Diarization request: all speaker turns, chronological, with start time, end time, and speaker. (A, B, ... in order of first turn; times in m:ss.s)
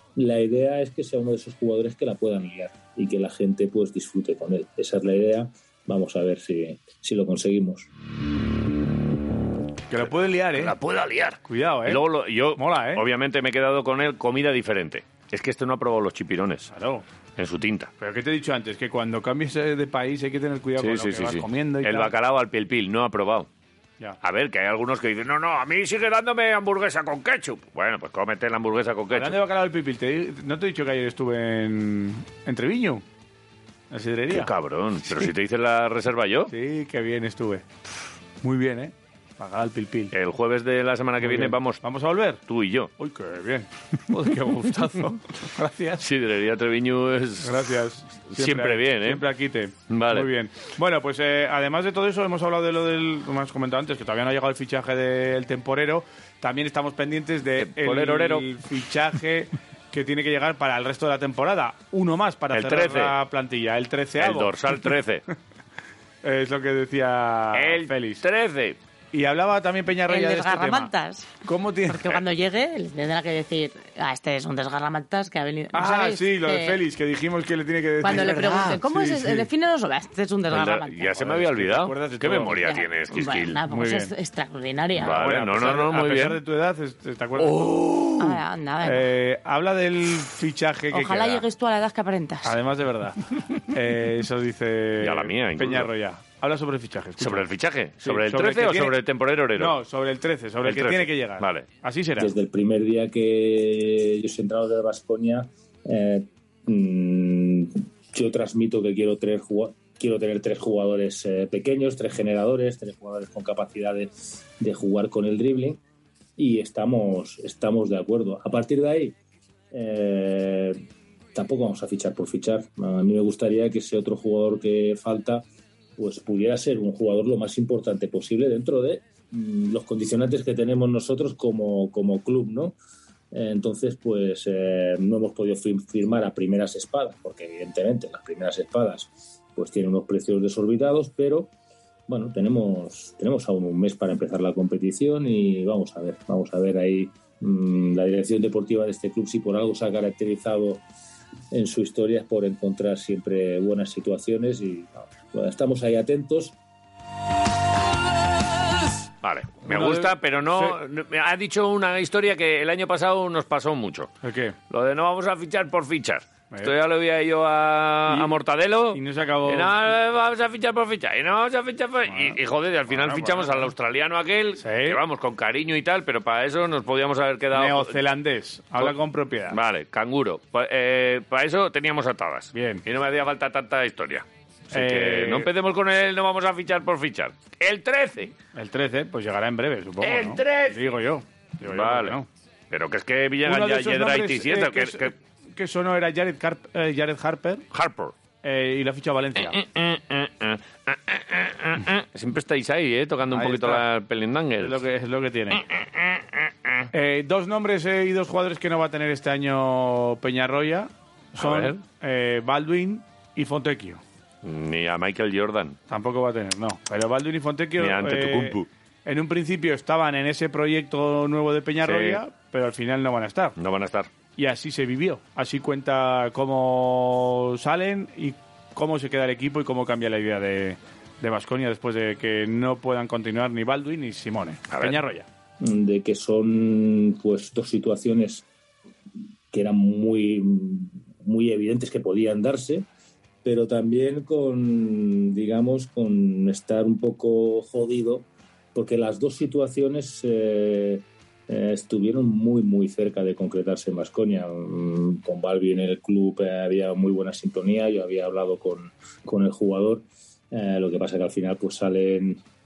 0:00.2-0:07.9 A
0:09.9-0:10.8 B
0:10.0-0:16.7 C
0:11.4-0:13.0 B
0:16.7-0:17.0 B
0:17.4-0:17.9 C
0:18.0-0:22.1 B
0:20.8-0:23.5 C
0:24.2-0:29.4 C
0:29.1-0:33.0 B
0:33.9-0:34.5 B
0:34.3-0:36.5 C
0:36.5-0:37.6 B
0:38.4-0:40.1 B
0:40.1-0:41.8 C
0:41.2-0:42.4 B
0:42.5-0:42.9 C
0:43.0-0:46.0 B
0:46.0-0:47.7 C
0:47.4-1:04.9 B
0:48.3-0:49.2 C
0:49.9-0:50.3 C
0:57.6-0:58.5 C
1:02.5-1:03.2 C
1:04.2-1:05.2 C
1:06.2-1:08.2 B
1:07.5-1:08.8 C
1:09.1-1:10.9 B
1:10.1-1:11.3 D
1:11.4-1:12.0 B
1:11.9-1:16.8 D
1:15.7-1:19.5 B
1:18.0-1:21.2 D
1:20.5-1:23.6 C
1:21.2-1:22.6 B
1:22.6-1:25.2 D
1:23.7-1:24.1 B
1:25.0-1:26.4 C
1:25.0-1:28.0 B
1:27.4-1:28.4 C
1:28.2-1:29.1 D
1:28.8-1:31.5 B
1:30.9-1:32.6 D
1:32.4-1:37.5 B
1:35.0-1:35.9 C
1:37.2-1:39.8 C
1:38.0-1:39.0 B
1:39.6-1:42.3 B
1:40.6-1:41.6 C
1:42.2-1:55.8 A
1:56.4-1:59.2 A
1:59.7-2:00.8 A
2:01.3-2:05.4 A
2:06.0-2:12.8 A
2:13.3-2:21.5 A
2:22.1-2:30.8 A
2:31.5-2:36.6 A
2:39.2-2:44.1 C
2:39.6-2:40.8 B
2:44.2-2:44.6 B
2:44.7-2:58.0 C
2:48.1-2:48.3 B
2:48.9-2:49.7 B
2:52.1-2:52.4 B
2:52.9-2:53.7 B
2:54.6-2:55.0 B
2:57.5-2:59.6 B
2:59.5-3:08.4 C
3:02.5-3:02.8 B
3:04.7-3:05.5 B
3:08.5-3:12.3 B
3:10.0-3:10.9 C
3:11.6-3:15.1 C
3:13.4-3:17.6 B
3:17.7-3:18.1 C
3:18.4-3:19.6 B
3:19.4-3:24.8 C
3:23.3-3:23.9 B
3:24.6-3:25.6 B
3:25.5-3:26.9 C
3:26.9-3:34.0 B
3:31.4-3:31.8 C
3:34.4-3:35.8 C
3:35.9-3:43.6 B
3:37.8-3:38.7 C
3:41.8-3:42.2 C
3:43.6-3:44.1 C
3:44.4-3:55.3 B
3:54.7-3:55.0 C
3:55.6-3:58.5 A
3:59.5-4:02.9 A
4:03.4-4:22.4 A